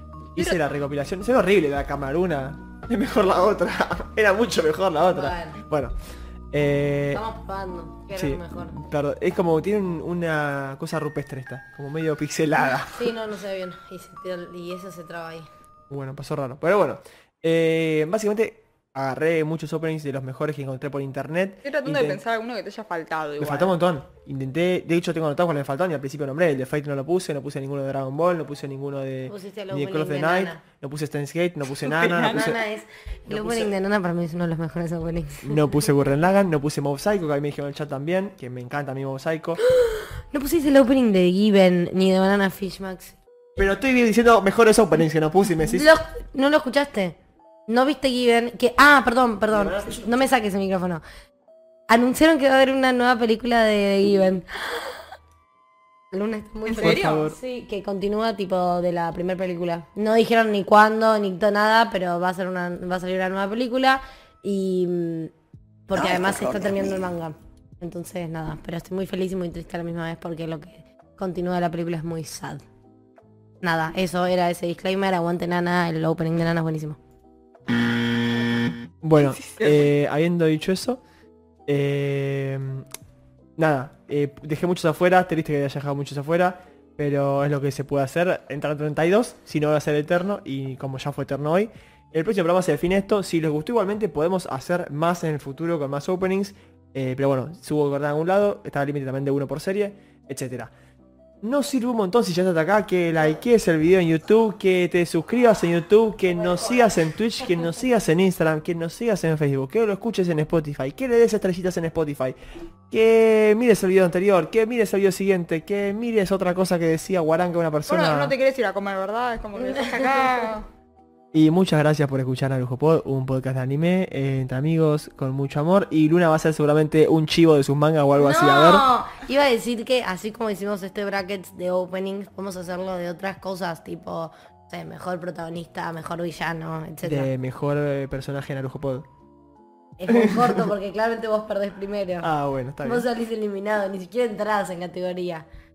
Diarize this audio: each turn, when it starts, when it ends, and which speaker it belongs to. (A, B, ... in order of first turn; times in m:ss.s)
0:00.4-0:06.0 A
0:05.1-0:05.6 B
0:06.5-0:07.2 A
0:07.1-0:08.8 B
0:08.1-0:13.1 A
0:12.9-0:15.5 B
0:15.9-0:22.2 A
0:21.6-0:23.7 C
0:23.4-0:32.6 A
0:29.3-0:30.6 B
0:31.8-0:32.6 C
0:32.2-0:35.6 B
0:33.3-0:33.8 A
0:35.4-0:39.6 A
0:39.7-0:43.2 B
0:43.6-0:45.9 A
0:45.6-0:47.2 B
0:47.7-0:51.0 B
0:49.5-0:50.3 A
0:51.9-0:54.9 B
0:56.1-1:05.3 B
0:56.7-0:57.3 C
0:56.8-0:57.4 A
1:05.9-1:12.6 B
1:13.6-1:17.0 B
1:19.0-1:21.0 A
1:19.2-1:19.8 C
1:21.7-1:22.9 A
1:23.6-1:40.7 A
1:41.4-1:52.4 A
1:52.9-1:58.4 A
1:57.9-2:00.7 C
2:01.3-2:08.9 A
2:08.2-2:17.3 B
2:17.0-2:19.1 A
2:20.0-2:22.3 B
2:20.1-2:20.7 A
2:22.2-2:23.1 A
2:22.8-2:25.5 B